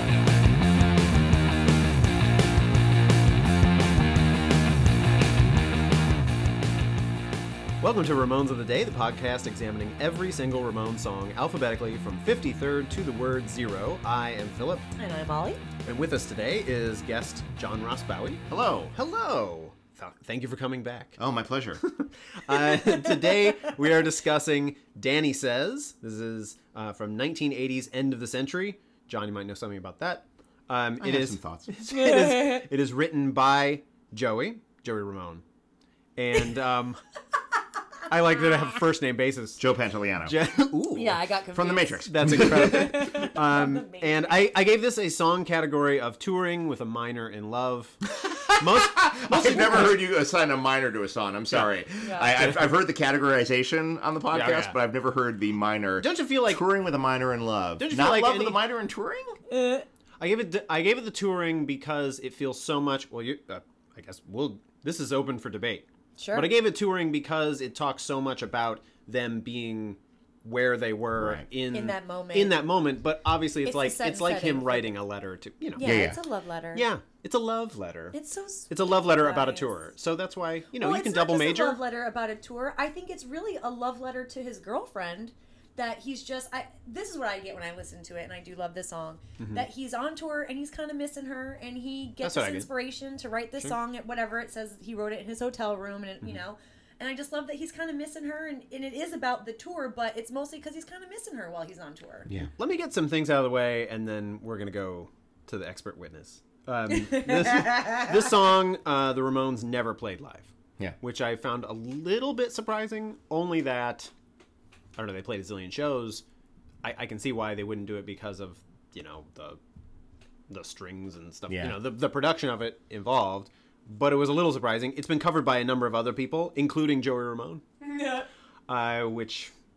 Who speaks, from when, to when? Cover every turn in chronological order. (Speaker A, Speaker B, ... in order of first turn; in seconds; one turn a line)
Speaker A: 7.8-14.9
Speaker B: 15.0-15.6
Speaker A: 15.8-18.4
Speaker C: 18.5-18.9
Speaker A: 18.9-21.2
Speaker C: 21.2-21.8
Speaker A: 21.8-35.4
Speaker C: 31.0-31.7
Speaker B: 31.9-32.6
Speaker A: 36.2-37.0
Speaker A: 38.1-39.6
Speaker C: 39.6-40.4
Speaker A: 40.2-41.2
Speaker B: 41.0-44.5
Speaker C: 41.5-43.1
Speaker A: 42.0-50.0
Speaker C: 48.2-59.4
Speaker B: 52.0-52.4
Speaker A: 54.3-54.8
Speaker A: 56.0-56.6
Speaker A: 57.8-58.6
Speaker B: 59.5-59.9
Speaker A: 60.2-76.0
Speaker B: 66.2-66.5
Speaker C: 71.2-71.5
Speaker B: 71.7-72.6
Speaker B: 73.6-75.0
Speaker B: 75.8-76.9
Speaker C: 75.8-76.2
Speaker A: 76.7-78.2
Speaker B: 78.1-79.9
Speaker A: 78.7-81.8
Speaker B: 80.8-102.3
Speaker A: 89.4-89.7
Speaker A: 92.2-92.7
Speaker A: 102.6-114.1
Speaker B: 106.9-108.2
Speaker A: 115.0-116.2
Speaker A: 116.8-119.6
Speaker A: 120.5-127.6
Speaker C: 121.5-121.8
Speaker B: 127.8-128.3
Speaker A: 128.7-129.5